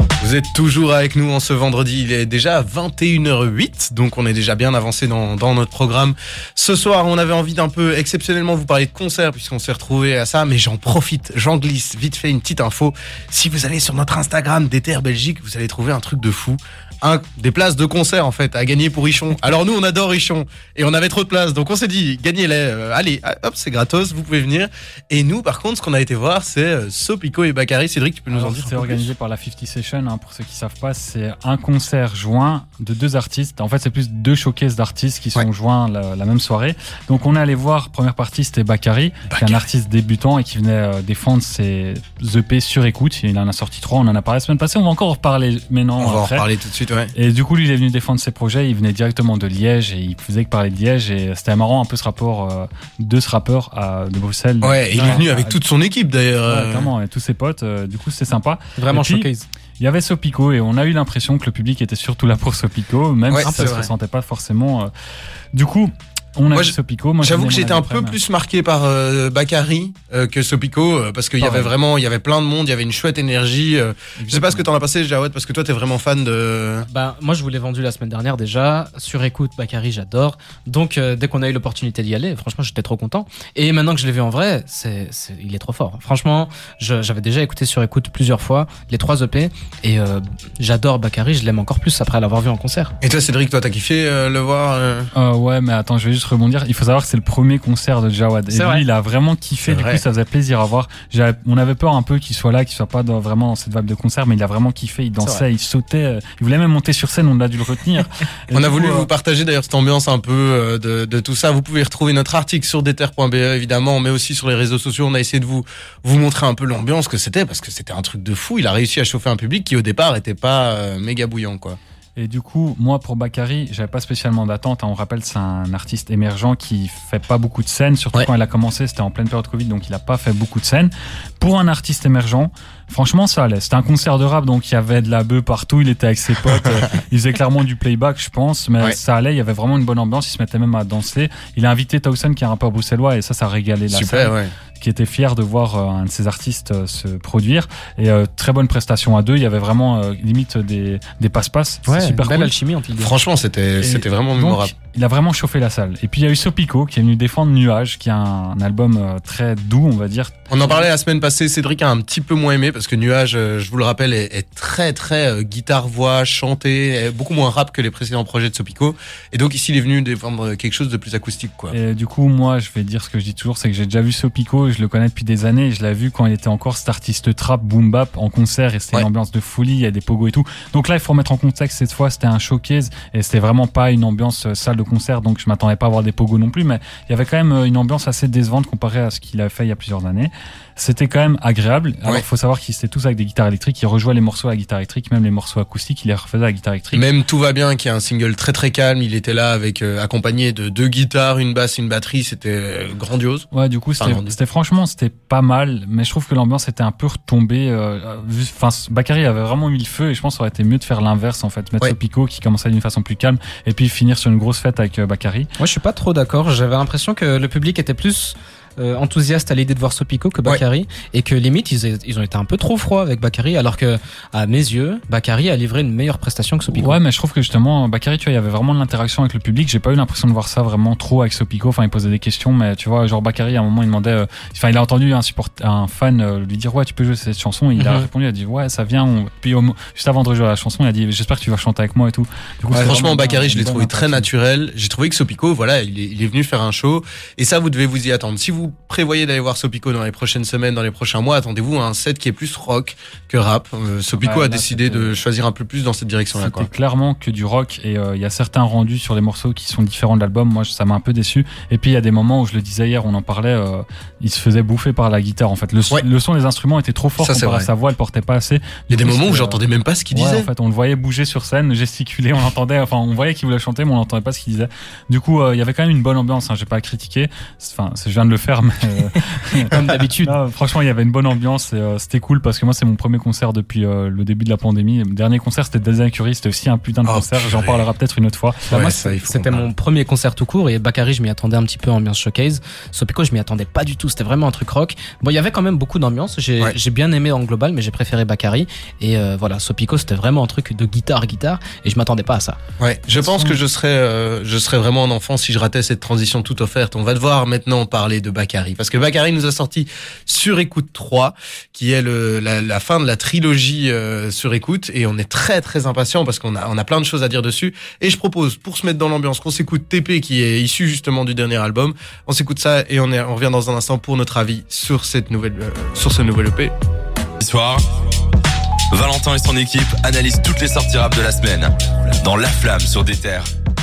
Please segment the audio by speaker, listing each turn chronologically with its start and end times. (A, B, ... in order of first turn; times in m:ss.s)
0:00.2-0:29.1 A
0:28.3-0:46.4 B
0:39.3-0:39.6 A
0:46.0-0:47.1 A
0:47.1-0:55.6 B
0:54.6-0:56.9 A
0:56.5-1:04.9 B
0:58.8-0:59.5 C
1:03.3-1:03.9 A
1:03.4-1:03.8 C
1:05.5-1:08.2 B
1:06.5-1:16.9 A
1:11.4-1:11.7 C
1:14.2-1:14.6 B
1:16.9-1:32.9 C
1:33.0-1:35.1 A
1:35.1-1:49.1 B
1:38.5-1:38.8 C
1:39.6-1:40.0 A
1:45.2-1:45.4 C
1:48.5-2:01.8 A
2:02.2-2:32.5 B
2:23.9-2:24.5 A
2:31.8-2:33.1 C
2:33.0-2:34.7 A
2:33.8-2:40.5 B
2:40.5-2:51.7 A
2:51.7-3:17.1 B
3:16.9-3:23.5 A
3:23.5-3:35.5 B
3:24.0-3:24.4 A
3:35.6-3:47.0 C
3:46.7-4:04.3 B
3:57.8-3:58.1 C
4:02.7-4:03.0 C
4:02.7-4:16.7 A
4:14.2-4:15.2 B
4:16.3-4:29.6 B
4:27.2-4:27.7 A
4:28.9-4:30.5 A
4:30.1-4:48.7 B
4:39.6-4:40.4 C
4:47.0-4:47.8 A
4:48.7-4:49.7 A
4:48.7-5:02.6 C
5:02.8-5:26.7 A
5:03.2-5:03.6 B
5:27.4-5:27.8 D
5:28.9-5:33.5 D